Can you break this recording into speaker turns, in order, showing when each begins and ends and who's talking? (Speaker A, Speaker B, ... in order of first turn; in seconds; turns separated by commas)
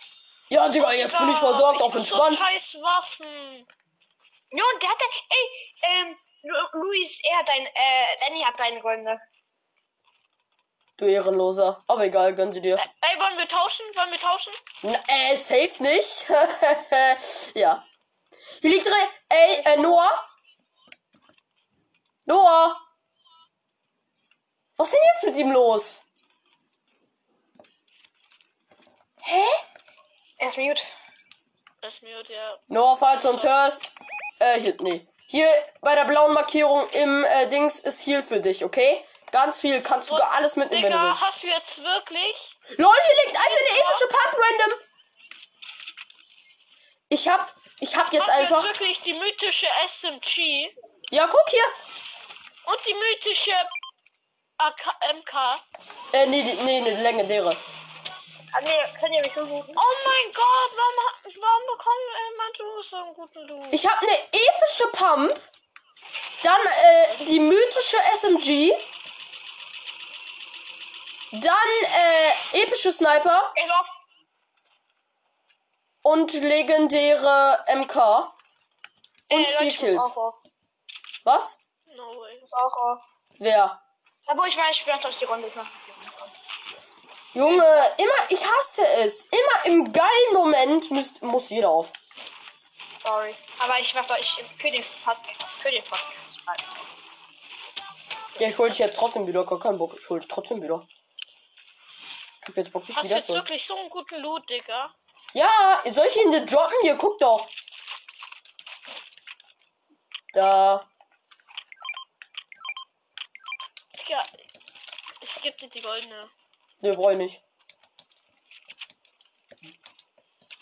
Speaker A: 0.5-2.5, Speaker B: 0.8-3.7, Speaker C: 4.5-9.2, Speaker A: 11.0-12.8, Speaker B: 12.8-14.6, Speaker A: 14.8-17.8, Speaker A: 18.6-20.3, Speaker A: 22.3-22.8, Speaker A: 24.8-26.0, Speaker A: 29.2-29.6, Speaker C: 30.4-30.9, Speaker B: 31.8-32.6, Speaker A: 32.7-41.2, Speaker B: 33.1-33.5, Speaker B: 40.1-42.6, Speaker A: 42.7-44.8, Speaker B: 43.4-44.1, Speaker A: 47.1-48.7, Speaker B: 48.2-50.8, Speaker A: 51.1-51.7, Speaker B: 52.6-53.7, Speaker B: 54.6-55.6, Speaker A: 56.1-57.6, Speaker C: 58.5-59.8, Speaker B: 59.8-63.8, Speaker A: 63.7-65.5, Speaker A: 66.4-68.8, Speaker A: 71.3-73.5, Speaker C: 73.5-74.0, Speaker A: 76.0-78.3, Speaker A: 79.3-80.1, Speaker C: 79.3-80.4, Speaker A: 81.2-81.6, Speaker B: 81.9-82.5, Speaker C: 82.5-83.0, Speaker A: 83.4-83.8, Speaker C: 84.3-86.3, Speaker A: 87.3-92.0, Speaker C: 87.4-88.0, Speaker C: 93.0-96.8, Speaker A: 98.4-100.9, Speaker A: 102.4-103.5, Speaker B: 102.9-104.9, Speaker A: 105.3-107.5, Speaker A: 110.3-110.9, Speaker B: 114.0-114.3, Speaker B: 115.2-116.3, Speaker A: 116.8-117.4